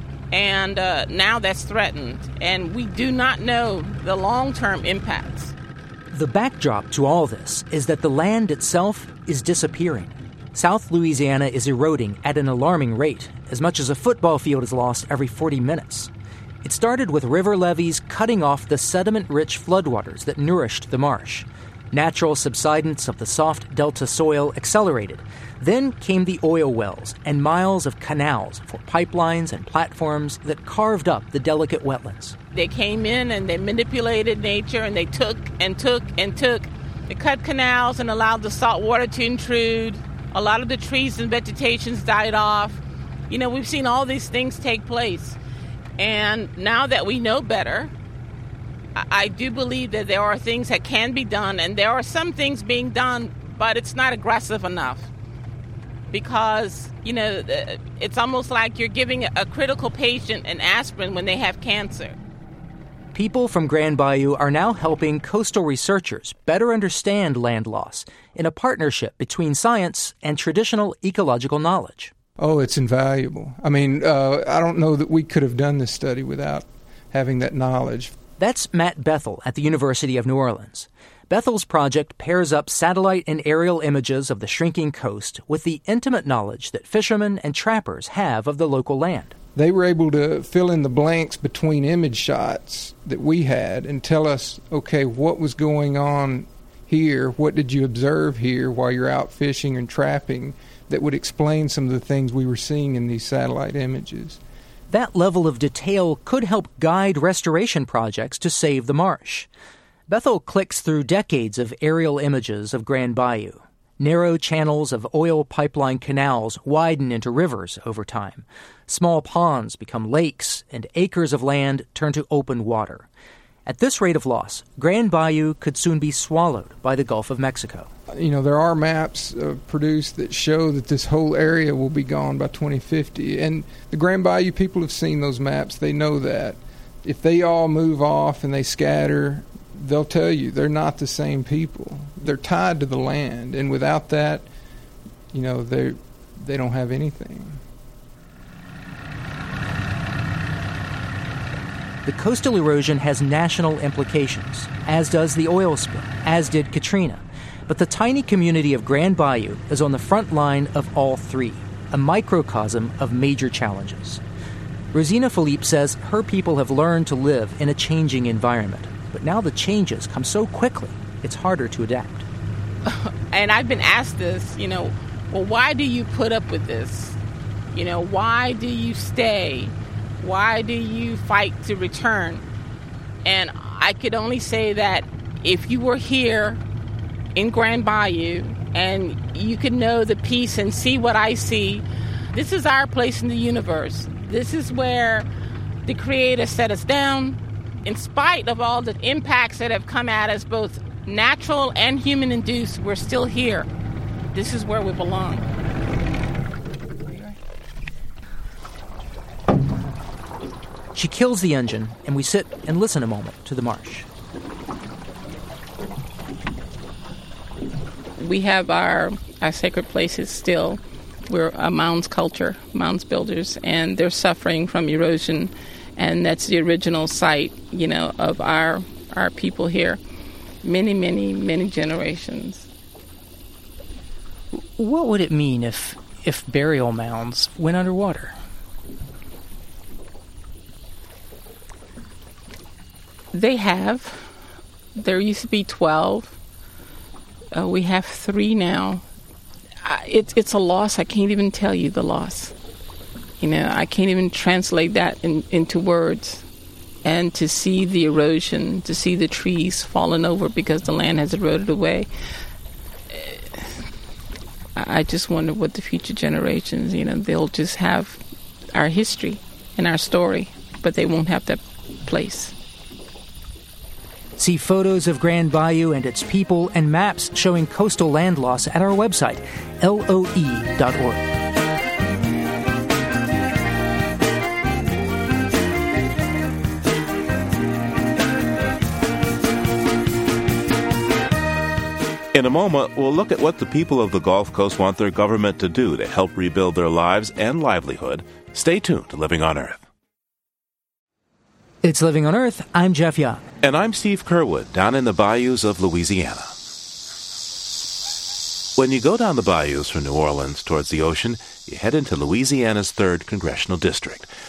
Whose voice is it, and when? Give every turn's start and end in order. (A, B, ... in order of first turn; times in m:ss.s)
0:00.3-0:05.5 A
0:06.1-0:16.1 B
0:16.6-0:32.4 B
0:32.5-0:45.4 A
0:46.0-0:47.9 A
0:49.0-0:55.1 A
0:56.1-1:02.2 A
1:03.1-1:12.1 B
1:12.4-1:18.1 C
1:18.4-1:29.3 B
1:29.6-1:44.4 C
1:44.9-1:49.5 B
1:50.1-2:03.1 B
2:03.6-2:07.9 B
2:08.1-2:24.5 C
2:25.3-2:27.6 C
2:32.0-2:44.2 B
2:44.9-2:52.2 B
2:52.8-2:57.2 A
2:57.7-3:02.4 A
3:03.2-3:06.6 A
3:07.3-3:15.2 A
3:15.8-3:23.7 A
3:24.3-3:25.4 A
3:30.9-3:34.0 B
3:38.2-3:50.0 A
3:50.6-3:52.7 A
3:54.8-3:58.4 B
4:03.3-4:04.3 A
4:05.0-4:06.4 A
4:07.5-4:09.0 A
4:09.8-4:12.5 A
4:13.4-4:16.4 A
4:17.0-4:22.1 A
4:23.1-4:23.7 A
4:24.8-4:28.2 A
4:28.7-4:32.5 A
4:34.4-4:41.3 B
4:52.3-4:59.8 D
5:01.8-5:03.4 B
5:03.6-5:06.5 D
5:08.8-5:14.3 D